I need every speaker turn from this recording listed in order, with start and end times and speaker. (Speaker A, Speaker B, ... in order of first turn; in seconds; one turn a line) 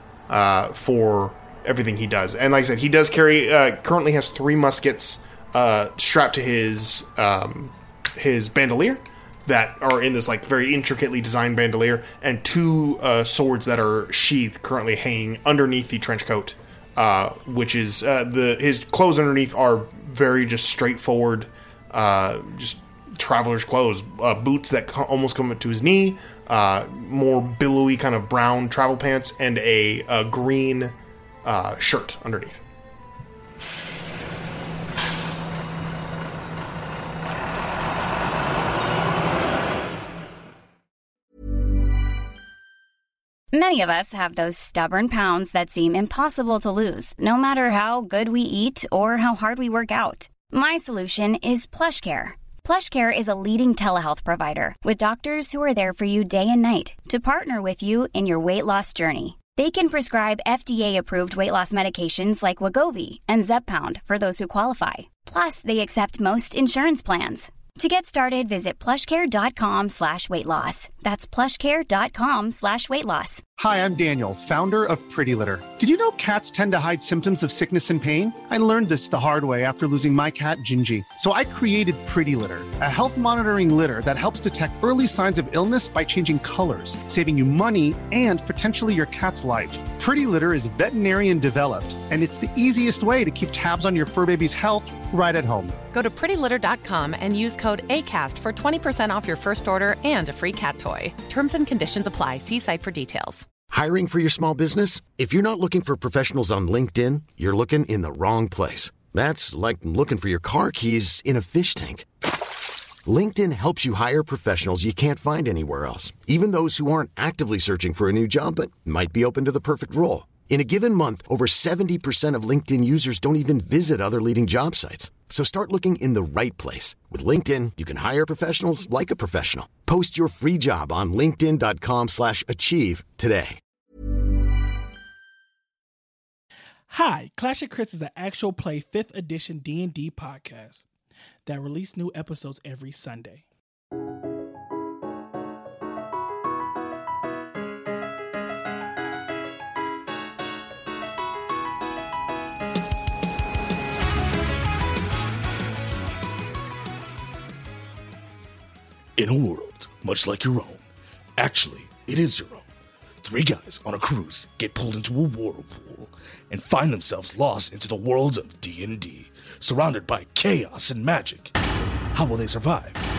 Speaker A: 0.3-32.6
Speaker B: 43.5-73.4
Speaker C: 73.6-95.8
Speaker D: 95.9-103.5
Speaker E: 103.7-112.1
Speaker E: 113.1-133.6
Speaker F: 136.9-140.9
Speaker F: 141.4-143.4
Speaker G: 159.2-160.8
Speaker G: 161.4-162.7
Speaker G: 163.2-171.5
Speaker G: 172.1-173.0